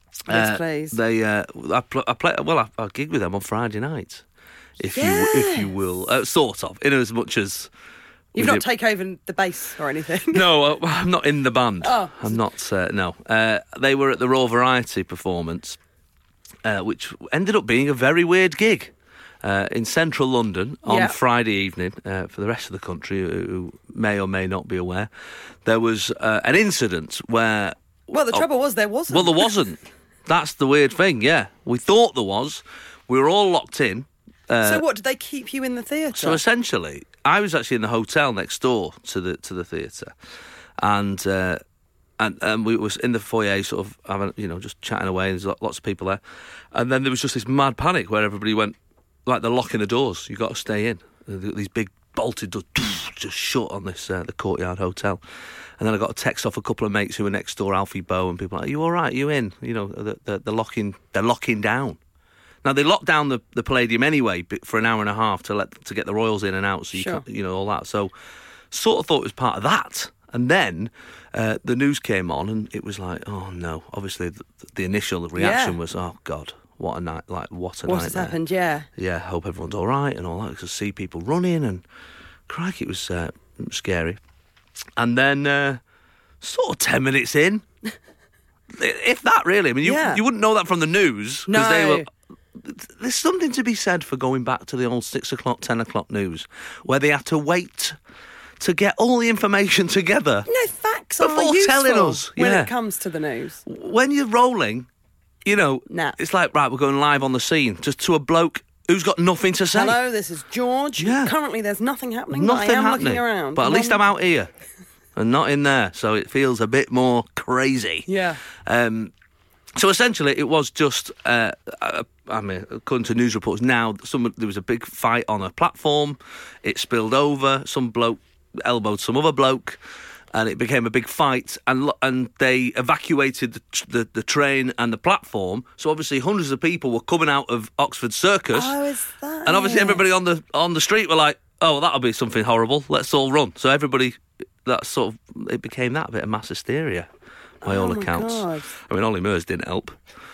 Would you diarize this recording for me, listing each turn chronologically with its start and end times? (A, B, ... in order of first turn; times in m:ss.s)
0:00.3-0:01.0 A
0:00.3-0:04.2 B
0:04.8-0:07.7 B
0:04.9-0:05.7 A
0:08.3-0:08.7 B
0:08.4-0:10.4 A
0:10.3-0:15.8 B
0:11.8-0:12.4 A
0:16.6-0:25.1 B
0:20.9-0:21.2 A
0:25.6-0:27.8 B
0:28.1-0:29.5 A
0:29.1-0:34.8 B
0:34.6-0:36.4 A
0:36.2-0:40.1 B
0:40.8-0:41.6 B
0:42.2-0:46.2 B
0:46.7-0:55.2 B
0:55.8-1:02.0 B
1:02.6-1:08.1 B
1:06.9-1:07.2 A
1:08.7-1:18.4 B
1:15.4-1:15.8 A
1:17.9-1:18.9 A
1:19.0-1:21.8 B
1:22.5-1:24.2 B
1:25.0-1:25.8 B
1:26.4-1:27.6 B
1:28.7-1:38.0 B
1:29.8-1:30.2 A
1:31.5-1:32.1 A
1:38.6-1:40.5 B
1:40.5-1:43.6 A
1:41.2-1:42.7 B
1:43.7-1:44.9 B
1:45.4-1:50.0 B
1:45.9-1:46.2 A
1:49.7-1:54.0 A
1:51.0-1:51.3 B
1:52.3-1:54.5 B
1:55.2-1:58.1 B
1:58.1-1:58.4 A
1:58.6-1:59.1 B
1:59.8-2:09.8 B
2:10.3-2:18.8 B
2:18.5-2:20.0 A
2:19.4-2:27.1 B
2:27.6-2:28.7 A
2:27.6-2:30.0 B